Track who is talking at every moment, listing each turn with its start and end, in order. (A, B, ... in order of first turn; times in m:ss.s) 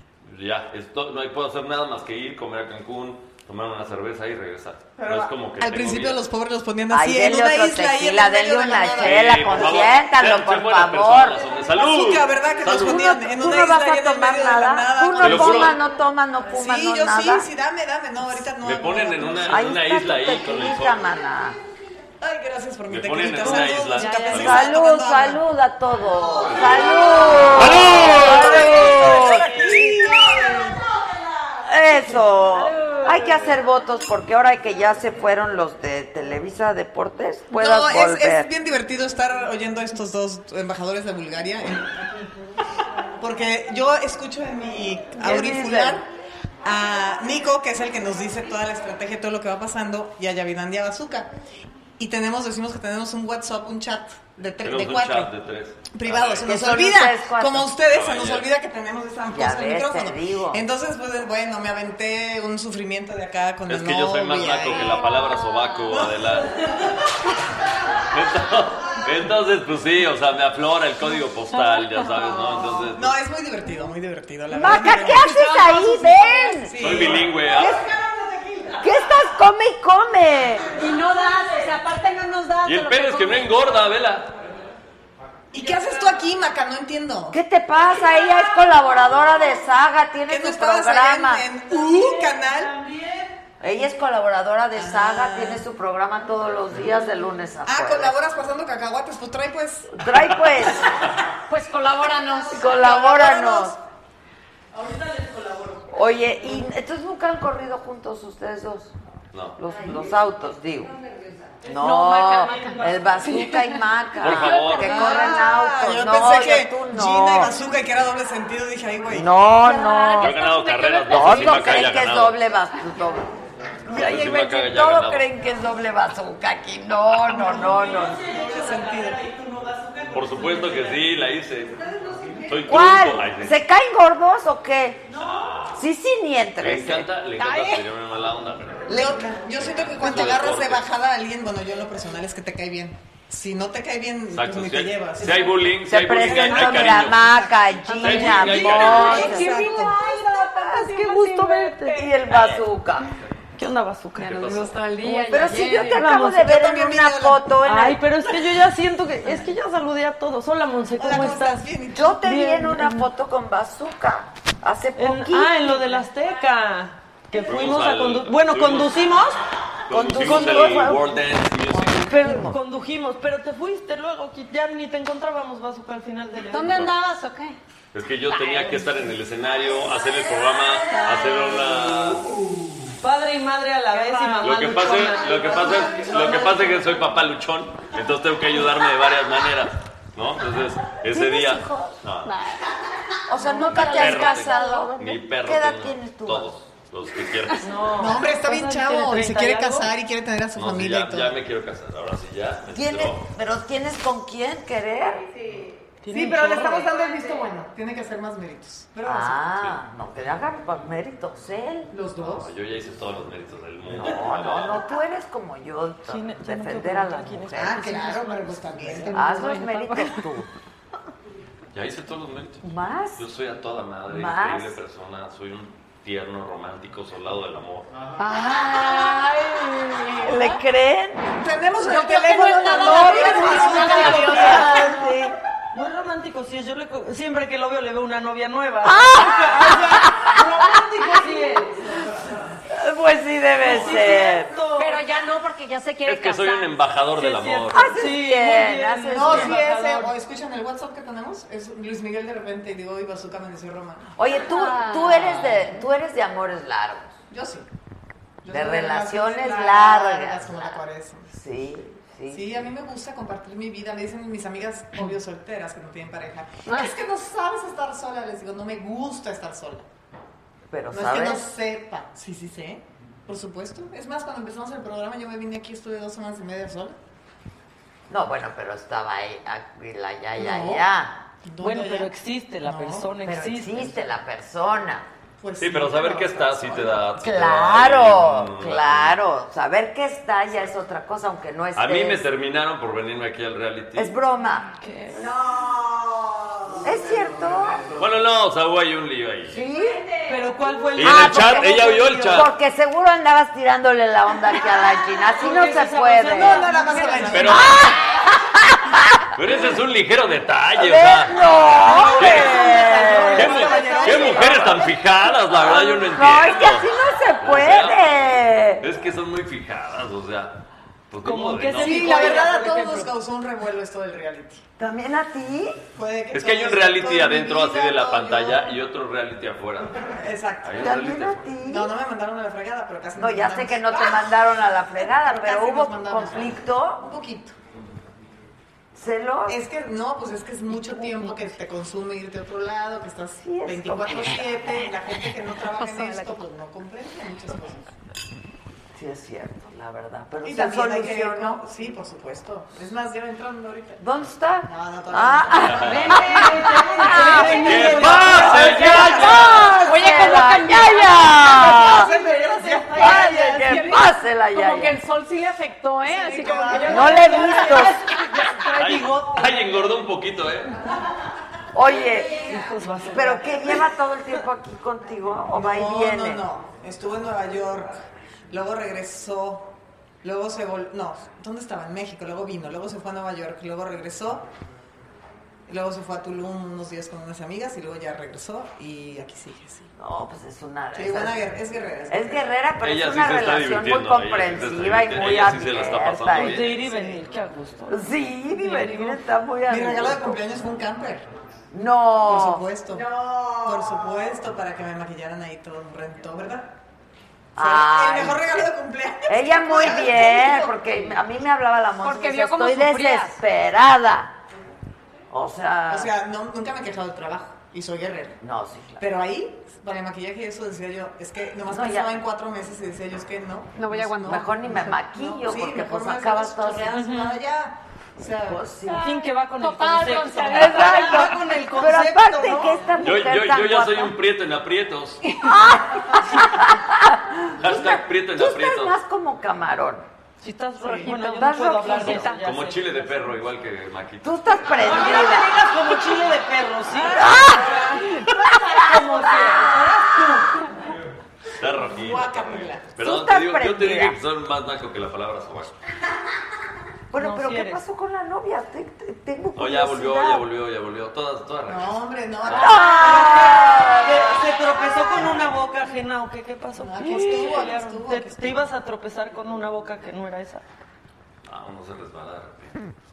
0:00.2-0:06.2 A
0:05.0-0:09.8 B
0:06.9-0:11.4 C
0:08.9-0:13.2 A
0:11.7-0:15.8 B
0:12.6-0:17.5 C
0:15.2-0:15.8 A
0:16.4-0:19.6 B
0:18.6-0:21.0 A
0:19.5-0:21.6 C
0:22.2-0:25.4 B
0:22.9-0:24.7 A
0:24.1-0:29.7 C
0:26.5-0:26.9 A
0:26.5-0:30.8 B
0:27.3-0:27.6 D
0:27.4-0:29.2 A
0:28.3-0:30.6 D
0:31.6-0:38.5 C
0:32.5-0:33.4 D
0:37.5-0:41.9 B
0:43.2-0:46.0 B
0:45.2-0:46.0 C
0:46.6-0:51.3 B
0:52.0-0:55.3 B
0:54.6-0:56.6 A
0:55.9-1:04.9 B
0:56.4-0:57.7 C
0:57.8-0:58.5 A
0:59.3-1:00.7 C
1:03.7-1:06.9 A
1:04.6-1:06.1 E
1:08.1-1:13.2 A
1:11.5-1:12.6 E
1:12.7-1:15.5 B
1:14.5-1:17.9 C
1:15.0-1:16.8 E
1:16.6-1:18.8 B
1:16.8-1:17.8 A
1:18.8-1:20.7 C
1:20.7-1:23.6 E
1:22.6-1:24.3 A
1:25.5-1:27.4 B
1:25.6-1:26.2 E
1:27.3-1:31.5 C
1:30.3-1:32.7 B
1:31.7-1:33.4 D
1:33.6-1:38.2 C
1:34.7-1:35.6 B
1:37.6-1:40.0 B
1:39.9-1:41.0 C
1:41.5-1:43.0 E
1:42.5-1:43.8 C
1:42.6-1:43.8 B
1:44.7-1:46.6 D
1:45.9-1:48.9 C
1:49.3-1:49.6 A
1:49.6-1:50.9 C
1:51.6-1:57.5 C
1:51.7-1:55.4 E
1:52.2-1:53.3 D
1:54.2-1:55.1 A
1:54.9-1:59.3 B
1:59.1-2:00.4 C
1:59.6-2:01.9 E
2:00.2-2:02.4 A
2:01.1-2:03.3 C
2:03.8-2:08.2 C
2:03.9-2:05.3 A
2:07.3-2:09.2 B
2:07.4-2:11.0 D
2:10.1-2:11.8 A
2:12.4-2:13.6 A
2:12.6-2:15.1 C
2:15.2-2:15.8 A
2:15.7-2:17.1 C
2:16.6-2:20.9 A
2:17.4-2:17.8 E
2:18.8-2:30.0 B
2:24.3-2:27.4 A
2:25.9-2:29.5 C
2:27.8-2:32.1 E
2:28.0-2:29.2 A
2:30.6-2:32.6 D
2:31.9-2:33.1 C
2:33.6-2:36.5 D
2:34.2-2:34.8 A
2:34.2-2:36.1 E
2:35.2-2:38.1 C
2:36.4-2:37.5 B
2:37.6-2:43.1 D
2:41.0-2:42.2 B
2:41.9-2:45.8 C
2:45.0-2:49.4 D
2:47.4-2:49.2 A
2:49.9-2:52.1 A
2:49.9-2:52.6 C
2:50.2-2:50.8 D
2:52.0-2:56.7 D
2:56.5-2:57.6 E
2:56.6-2:56.9 A
2:57.9-3:02.4 A
2:58.3-2:58.6 E
3:00.9-3:01.5 E
3:01.1-3:01.8 D
3:03.0-3:06.6 D
3:04.4-3:12.4 A
3:11.1-3:12.6 E
3:13.3-3:16.5 C
3:13.4-3:15.0 E
3:13.5-3:17.7 A
3:17.6-3:19.9 D
3:18.0-3:21.4 B
3:20.5-3:23.3 A
3:22.7-3:25.3 C
3:26.0-3:26.9 D
3:26.1-3:29.4 B
3:29.0-3:31.9 C
3:31.9-3:32.5 B
3:32.2-3:34.8 A
3:33.9-3:37.9 C
3:36.0-3:39.6 D
3:37.5-3:39.4 B
3:39.1-3:40.5 C
3:39.3-3:40.2 E
3:41.7-3:47.9 A
3:42.6-3:43.3 C
3:44.1-3:44.8 C
3:48.2-3:50.6 E
3:50.2-3:51.3 C
3:51.4-3:55.0 B
3:51.8-3:55.0 E
3:53.3-3:54.9 D
3:53.8-3:55.4 C
3:55.7-4:02.1 D
3:58.8-4:00.3 C
4:02.7-4:04.5 C
4:03.5-4:05.0 D
4:04.7-4:06.8 E
4:06.0-4:08.0 A
4:07.1-4:10.1 D
4:07.7-4:09.6 C
4:09.1-4:14.1 B
4:14.2-4:17.1 C
4:14.3-4:15.3 E
4:17.3-4:17.6 B
4:18.4-4:21.3 B
4:18.5-4:22.6 C
4:22.3-4:29.8 B
4:26.7-4:27.0 E
4:30.7-4:31.4 C
4:30.9-4:37.0 B
4:38.1-4:41.2 C
4:40.4-4:40.8 B
4:41.4-4:43.1 B
4:41.6-4:44.0 D
4:43.2-4:45.1 C
4:45.4-4:47.0 B
4:45.6-4:49.2 A
4:47.2-4:52.2 C
4:51.7-4:54.2 A
4:53.9-4:54.7 C
4:54.8-4:55.4 D
4:56.6-4:57.4 B
4:56.8-4:57.9 C
4:58.0-4:59.6 A
4:59.5-5:00.1 C
5:00.2-5:02.4 D
5:00.3-5:00.9 E
5:01.0-5:06.7 C
5:01.0-5:02.5 A
5:05.3-5:07.7 D
5:06.3-5:07.6 B
5:06.9-5:07.2 E
5:07.3-5:08.0 A
5:07.4-5:09.2 C
5:09.3-5:12.7 A
5:10.8-5:13.6 C
5:11.6-5:14.8 D
5:13.2-5:14.7 B
5:13.4-5:22.5 A
5:14.2-5:18.8 C
5:21.2-5:23.1 D
5:21.8-5:24.6 B
5:24.8-5:25.8 C
5:25.8-5:28.7 B
5:26.3-5:30.1 A
5:30.2-5:30.9 B
5:30.6-5:31.5 A
5:30.8-5:31.9 C
5:31.6-5:34.4 B
5:33.2-5:37.0 C
5:35.0-5:37.5 B
5:38.9-5:39.6 C
5:39.5-5:47.9 B
5:40.8-5:41.5 D
5:43.4-5:44.7 C
5:45.6-5:46.4 E
5:48.9-5:51.6 C
5:50.4-5:54.0 B
5:54.0-6:02.1 C
5:54.6-5:55.8 B
5:55.6-5:56.2 A
5:55.8-5:57.9 E
5:56.1-5:58.8 D
5:57.6-5:59.8 A
5:57.7-5:59.4 B
5:59.0-6:01.4 E
6:01.5-6:03.2 B
6:01.6-6:03.9 D
6:03.0-6:05.0 C
6:03.1-6:09.3 E
6:06.0-6:07.4 B
6:06.8-6:08.0 C
6:07.0-6:08.4 D
6:08.7-6:10.8 A
6:11.7-6:12.6 C
6:12.3-6:13.9 D
6:13.1-6:16.4 C
6:15.5-6:18.0 B
6:18.5-6:24.4 B
6:25.7-6:29.9 B
6:30.0-6:31.4 C
6:30.9-6:32.4 B
6:32.1-6:37.1 C
6:32.8-6:36.8 A
6:36.3-6:39.2 D
6:37.9-6:40.4 C
6:39.7-6:41.2 B
6:41.7-6:42.6 C
6:42.2-6:46.7 B
6:47.6-6:48.5 C
6:47.6-6:51.0 B
6:49.3-6:54.3 C
6:52.0-6:53.4 E
6:55.3-6:56.1 C
6:55.9-6:58.4 B
6:58.4-6:59.0 C
6:59.0-7:08.6 B
7:01.7-7:02.2 C
7:03.8-7:04.6 E
7:04.2-7:07.0 C
7:06.9-7:07.4 D
7:08.4-7:09.1 C
7:08.8-7:11.3 E
7:09.0-7:12.9 D
7:10.5-7:14.1 C
7:13.0-7:15.2 A
7:15.2-7:15.8 E
7:15.4-7:20.0 C
7:17.6-7:19.0 A
7:20.4-7:23.2 D
7:20.8-7:22.4 E
7:21.1-7:22.3 C
7:22.3-7:25.0 A
7:24.2-7:25.6 C
7:24.7-7:30.6 D
7:26.9-7:27.2 E
7:27.1-7:29.8 C
7:31.6-7:35.7 A
7:31.8-7:32.9 B
7:33.0-7:34.2 C
7:37.1-7:40.4 C
7:37.1-7:37.8 D
7:39.6-7:43.2 A
7:41.6-7:42.9 B
7:42.5-7:44.4 C
7:42.7-7:50.6 D
7:46.7-7:48.7 B
7:51.4-7:52.8 A